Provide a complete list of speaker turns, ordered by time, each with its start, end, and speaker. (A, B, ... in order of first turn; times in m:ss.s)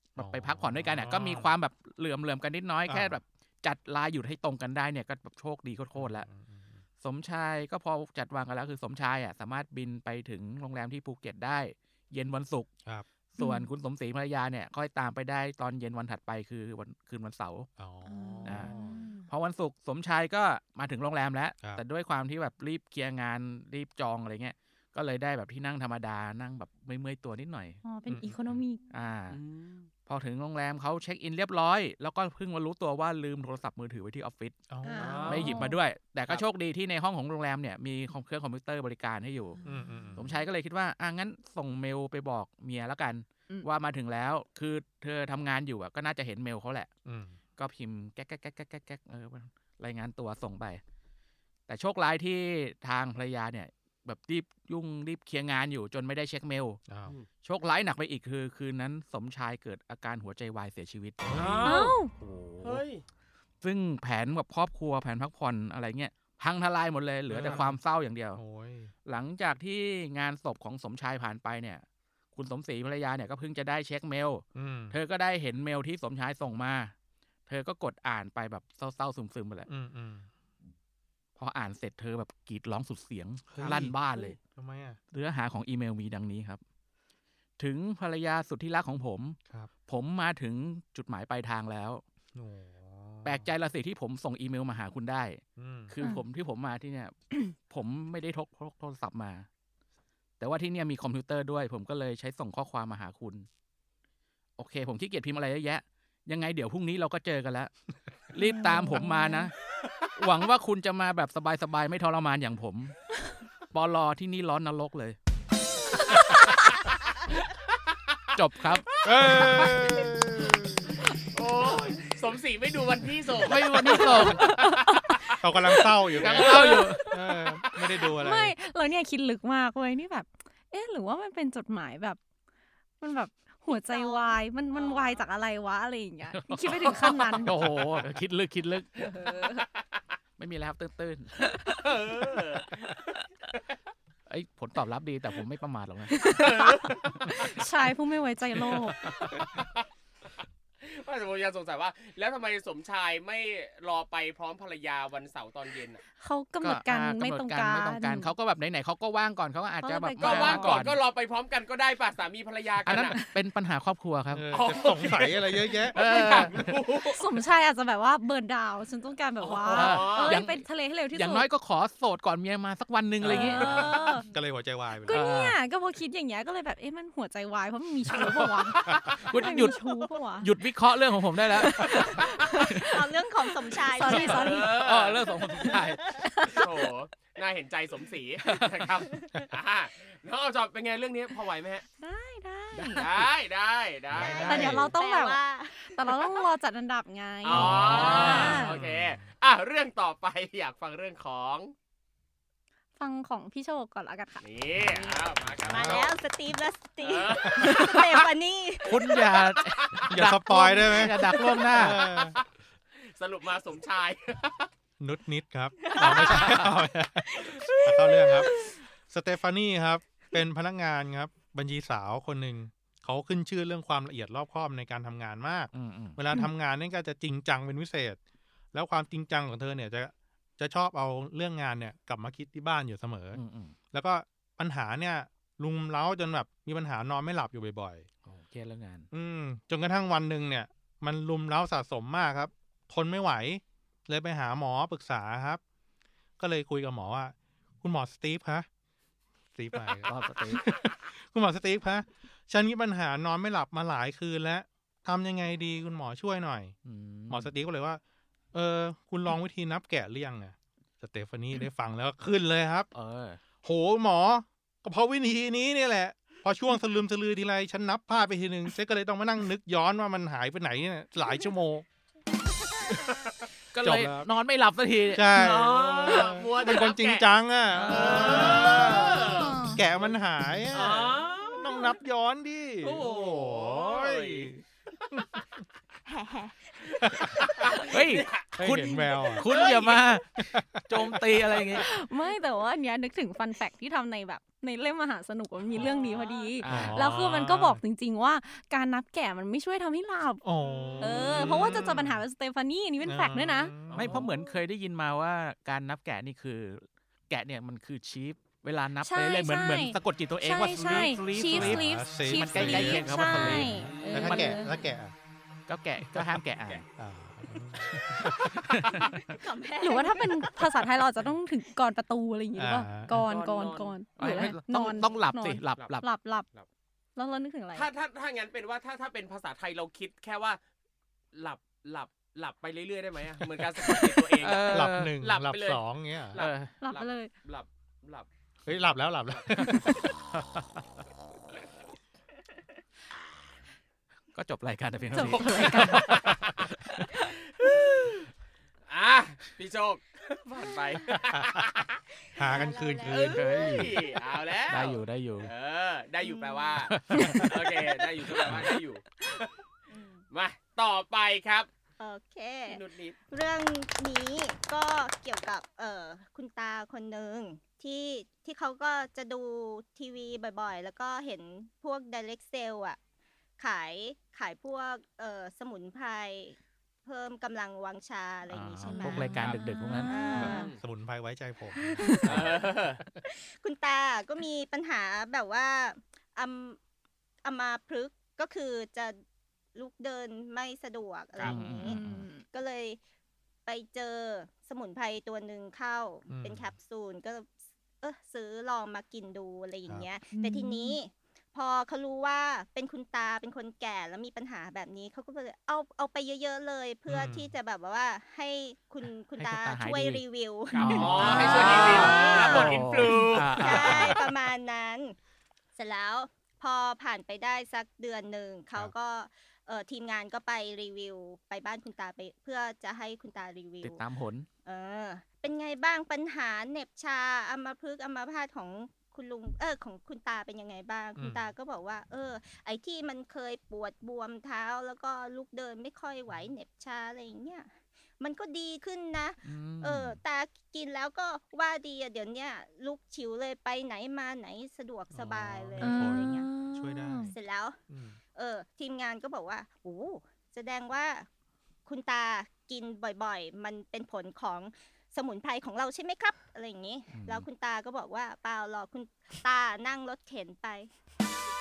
0:00.1-0:06.3 A
0:00.2-0:01.5 B
0:02.8-0:03.2 B
0:05.9-0:06.8 B
0:07.0-0:12.7 A
0:13.3-0:17.7 A
0:13.4-0:13.7 C
0:17.8-0:19.0 B
0:18.0-0:19.3 C
0:18.4-0:18.7 A
0:19.3-0:27.8 A
0:27.8-0:28.9 C
0:28.1-0:28.6 B
0:28.9-0:29.4 A
0:29.3-0:29.9 D
0:30.0-0:34.6 A
0:34.7-0:35.3 B
0:34.8-0:35.8 C
0:35.0-0:35.6 D
0:35.2-0:39.6 A
0:39.6-0:40.3 B
0:40.2-0:46.9 A
0:47.0-0:47.4 B
0:47.6-0:50.8 A
0:51.7-0:56.8 A
0:56.9-0:57.1 B
0:57.4-1:01.2 A
1:01.2-1:02.8 B
1:01.3-1:02.0 D
1:01.6-1:02.1 C
1:02.6-1:03.0 D
1:03.6-1:08.4 A
1:07.3-1:07.8 B
1:08.3-1:08.9 B
1:09.0-1:16.9 A
1:14.5-1:15.0 B
1:17.5-1:19.7 A
1:19.7-1:20.3 B
1:21.4-1:24.4 A
1:23.5-1:25.0 B
1:25.1-1:26.6 A
1:27.6-1:32.0 A
1:32.3-1:33.5 B
1:33.2-1:39.5 A
1:35.6-1:35.9 B
1:36.0-1:36.2 C
1:40.4-1:43.5 A
1:44.6-1:47.7 A
1:48.3-1:49.5 A
1:48.4-1:49.4 C
1:50.2-1:52.9 A
1:53.7-1:55.2 A
1:56.3-1:56.8 D
1:57.4-1:57.9 D
1:58.3-1:58.8 A
1:58.8-2:00.1 D
1:59.0-2:01.1 B
2:01.2-2:05.4 D
2:03.4-2:04.4 A
2:03.9-2:05.2 C
2:05.4-2:08.5 B
2:06.1-2:06.8 D
2:06.2-2:07.0 A
2:06.7-2:07.4 C
2:08.1-2:12.2 C
2:13.0-2:17.5 C
2:13.6-2:15.2 E
2:16.3-2:16.7 A
2:16.8-2:17.5 D
2:17.4-2:18.9 A
2:19.1-2:19.6 C
2:20.4-2:21.5 A
2:21.7-2:23.6 D
2:24.3-2:26.2 A
2:26.2-2:29.0 C
2:26.2-2:27.6 D
2:28.6-2:29.8 D
2:30.8-2:36.0 D
2:36.2-2:38.3 C
2:36.6-2:41.0 A
2:39.8-2:40.9 C
2:40.2-2:43.2 D
2:42.8-2:44.5 A
2:44.3-2:46.0 B
2:44.5-2:47.3 D
2:45.9-2:51.5 C
2:45.9-2:46.8 A
2:49.4-2:50.4 D
2:49.7-2:53.7 A
2:53.2-2:54.3 C
2:53.2-2:55.2 B
2:53.6-2:53.8 D
2:53.7-2:54.2 E
2:55.0-3:00.5 C
2:55.1-2:55.6 A
2:59.1-2:59.8 A
3:00.4-3:02.8 A
3:01.5-3:02.6 C
3:01.8-3:04.7 E
3:03.4-3:04.7 C
3:04.0-3:05.2 D
3:04.4-3:06.1 A
3:05.3-3:06.3 E
3:06.2-3:06.8 C
3:06.5-3:11.8 D
3:08.4-3:08.7 A
3:09.2-3:09.5 E
3:12.0-3:13.1 C
3:12.8-3:14.8 D
3:14.1-3:14.9 B
3:14.2-3:16.4 E
3:14.3-3:18.8 C
3:17.4-3:21.7 D
3:17.5-3:19.2 B
3:17.7-3:18.5 A
3:18.1-3:18.5 E
3:23.0-3:25.2 C
3:24.4-3:26.1 D
3:25.6-3:26.1 B
3:25.7-3:29.5 E
3:27.0-3:28.0 D
3:27.4-3:27.8 B
3:28.8-3:32.0 A
3:30.1-3:32.4 B
3:31.3-3:32.4 D
3:33.1-3:34.7 D
3:35.0-3:48.2 B
3:35.8-3:38.5 E
3:45.7-3:46.2 A
3:48.7-3:53.4 B
3:53.3-3:53.7 A
3:53.9-3:58.1 B
3:58.2-3:59.1 A
3:59.1-4:05.6 B
4:06.4-4:08.7 B
4:09.5-4:16.7 B
4:10.0-4:10.6 A
4:16.8-4:17.5 A
4:17.3-4:18.0 B
4:18.5-4:22.9 B
4:22.9-4:23.4 A
4:23.6-4:31.8 B
4:32.4-4:33.3 E
4:33.7-4:35.3 A
4:33.8-4:34.3 B
4:35.1-4:44.6 B
4:35.3-4:37.3 D
4:37.8-4:40.2 D
4:37.8-4:38.8 A
4:39.2-4:39.8 C
4:40.7-4:41.8 D
4:42.8-4:44.6 D
4:45.1-4:45.4 B
4:46.0-4:47.7 E
4:47.0-4:47.5 B
4:47.3-4:48.5 D
4:47.8-4:50.3 A
4:48.6-4:49.5 B
4:49.5-4:50.1 D
4:50.4-4:51.1 B
4:50.8-4:51.8 A
4:51.8-5:00.4 C
4:55.8-4:56.6 E
4:56.6-4:57.1 A
4:56.7-4:57.8 B
5:00.4-5:02.2 B
5:00.6-5:01.6 E
5:01.0-5:03.7 C
5:03.0-5:04.3 B
5:03.9-5:04.3 D
5:03.9-5:14.6 A
5:09.0-5:14.8 C
5:11.5-5:15.1 B
5:13.6-5:14.4 D
5:15.7-5:16.8 A
5:16.1-5:16.4 B
5:17.0-5:18.8 B
5:18.6-5:19.1 A
5:19.1-5:21.0 E
5:19.8-5:26.5 C
5:22.6-5:23.2 B
5:23.1-5:24.0 D
5:24.2-5:26.1 A
5:27.2-5:27.9 C
5:27.7-5:30.6 D
5:31.3-5:38.3 D
5:34.4-5:35.1 A
5:34.7-5:36.4 B
5:36.4-5:36.7 A
5:36.8-5:37.3 C
5:38.6-5:40.0 B
5:39.6-5:40.6 A
5:44.3-5:47.2 A
5:45.1-5:46.0 C
5:45.8-5:46.3 D
5:47.6-5:48.2 D
5:48.9-5:52.0 D
5:50.5-5:51.1 E
5:52.3-5:54.1 E
5:52.3-5:53.4 B
5:53.1-5:59.5 D
5:53.3-5:54.0 A
5:54.7-5:55.5 A
5:56.2-5:56.8 E
5:56.9-5:57.5 A
5:59.9-6:00.2 E
6:00.3-6:01.7 D
6:02.0-6:13.0 E
6:02.7-6:03.2 D
6:13.6-6:20.7 E
6:18.5-6:20.2 A
6:18.9-6:20.7 C
6:19.2-6:19.6 D
6:20.3-6:22.5 B
6:20.4-6:20.8 D
6:21.7-6:22.5 E
6:22.0-6:22.3 C
6:22.3-6:23.0 D
6:23.3-6:26.8 E
6:27.4-6:29.2 E
6:29.7-6:32.0 E
6:31.4-6:32.3 A
6:31.7-6:32.4 C
6:32.5-6:33.0 E
6:33.6-6:37.5 E
6:36.3-6:36.7 B
6:38.0-6:55.2 E
6:40.3-6:41.0 C
6:47.1-6:47.5 B
6:49.4-6:54.2 A
6:50.7-6:54.1 D
6:51.3-6:52.7 C
6:55.8-7:04.0 E
7:03.8-7:04.5 A
7:04.6-7:26.5 E
7:11.2-7:11.5 B
7:19.4-7:20.2 A
7:25.1-7:27.3 B
7:25.8-7:27.3 C
7:27.2-7:27.8 E
7:27.9-7:28.2 B
7:28.3-7:31.3 E
7:31.8-7:40.9 E
7:37.1-7:37.5 A